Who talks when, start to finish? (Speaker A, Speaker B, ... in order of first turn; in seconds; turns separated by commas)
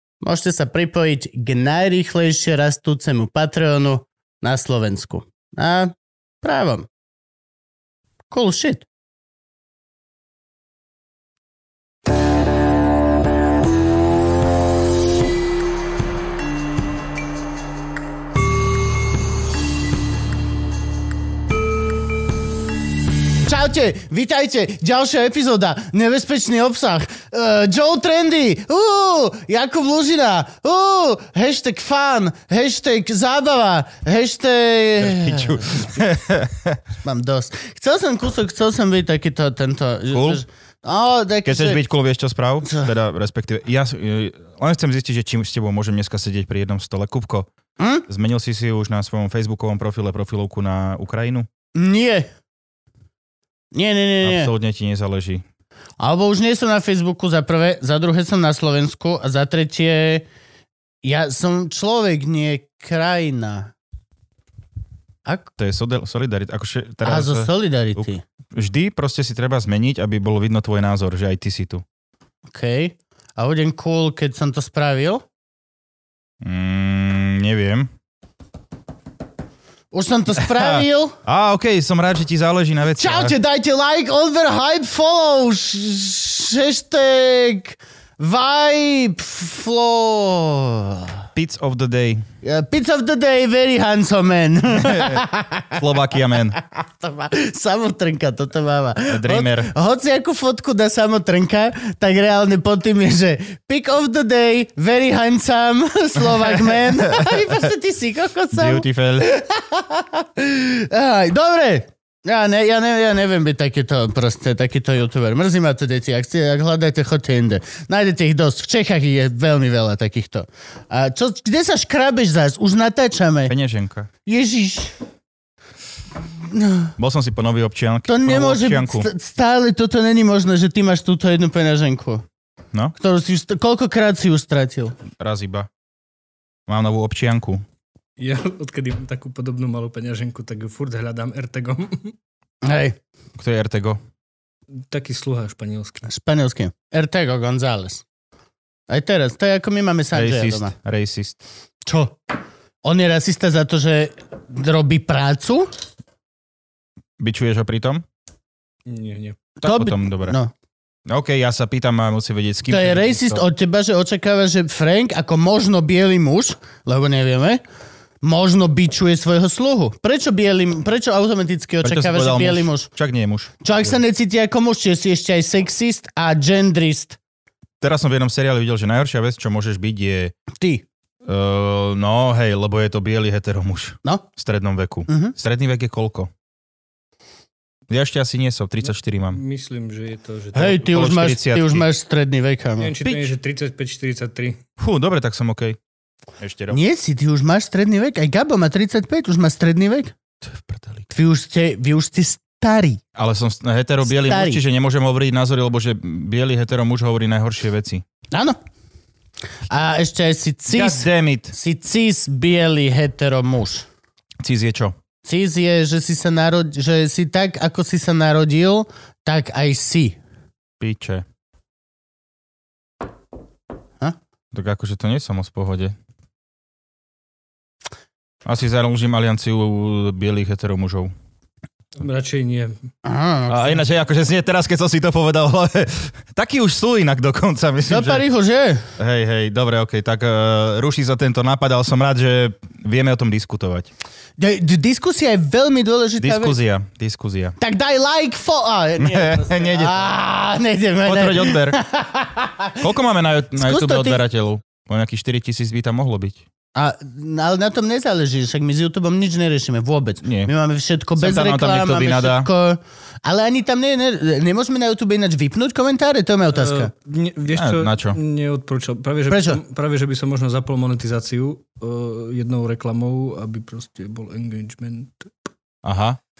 Speaker A: 0.2-6.9, Speaker A: 8.3-8.9, Speaker A: 23.4-35.9, Speaker B: 35.0-36.8, Speaker A: 37.0-41.8, Speaker B: 40.1-40.4, Speaker B: 41.4-47.5, Speaker A: 47.8-48.0, Speaker B: 48.1-51.5, Speaker A: 51.7-52.3, Speaker A: 53.7-54.5, Speaker B: 54.2-55.4, Speaker A: 56.0-60.2, Speaker A: 61.0-63.7, Speaker B: 65.6-71.8, Speaker A: 67.0-68.2, Speaker A: 72.5-75.2, Speaker B: 76.4-77.9, Speaker A: 79.9-81.2, Speaker B: 80.4-83.3, Speaker A: 83.0-91.1, Speaker B: 91.3-92.2, Speaker A: 92.4-95.8, Speaker B: 94.7-96.6, Speaker A: 96.5-123.5, Speaker B: 99.1-99.7, Speaker B: 107.1-107.6, Speaker B: 108.5-109.3, Speaker B: 123.5-124.1, Speaker A: 124.2-124.9, Speaker A: 126.4-126.9, Speaker B: 127.0-129.1, Speaker A: 128.1-132.2, Speaker A: 132.9-134.9, Speaker B: 135.2-135.7, Speaker B: 136.7-137.6, Speaker C: 138.2-142.2, Speaker A: 142.6-143.0, Speaker B: 143.4-144.0, Speaker C: 144.8-146.1, Speaker A: 146.1-148.0, Speaker A: 148.9-150.7, Speaker B: 150.1-151.4, Speaker A: 151.8-152.2, Speaker A: 152.8-155.7, Speaker B: 157.2-158.0, Speaker C: 158.8-159.4, Speaker A: 159.6-160.5, Speaker B: 159.6-160.3, Speaker B: 161.1-163.4, Speaker A: 162.7-167.6, Speaker A: 168.2-172.9, Speaker B: 171.8-173.5, Speaker A: 173.6-177.2, Speaker B: 177.8-180.3, Speaker A: 180.6-180.8, Speaker B: 181.2-186.3, Speaker A: 185.1-185.3, Speaker B: 187.9-189.4, Speaker C: 189.3-190.8, Speaker A: 190.5-192.9, Speaker B: 190.8-191.8, Speaker C: 192.8-194.6, Speaker B: 193.0-193.3, Speaker B: 194.8-195.8, Speaker B: 196.4-196.8, Speaker A: 196.7-200.1, Speaker B: 200.4-201.0, Speaker A: 201.1-203.0, Speaker B: 203.2-208.0, Speaker A: 204.0-204.6, Speaker A: 208.3-208.6, Speaker A: 209.7-213.8, Speaker B: 210.7-211.5, Speaker B: 214.4-214.9, Speaker A: 215.2-220.2, Speaker B: 220.8-221.2, Speaker B: 224.5-225.9, Speaker B: 228.4-231.1, Speaker C: 231.9-232.8, Speaker A: 233.0-233.8, Speaker B: 233.5-238.2, Speaker A: 237.9-238.9, Speaker B: 239.0-243.9, Speaker A: 244.4-246.6, Speaker B: 246.2-247.6, Speaker A: 247.6-252.8, Speaker B: 249.0-250.0, Speaker B: 251.0-251.8, Speaker B: 252.8-256.4, Speaker A: 253.6-254.2, Speaker A: 256.8-266.9, Speaker B: 260.2-260.5, Speaker B: 261.2-262.5, Speaker C: 266.5-275.3, Speaker B: 267.5-268.2, Speaker A: 269.3-269.6, Speaker B: 275.8-276.2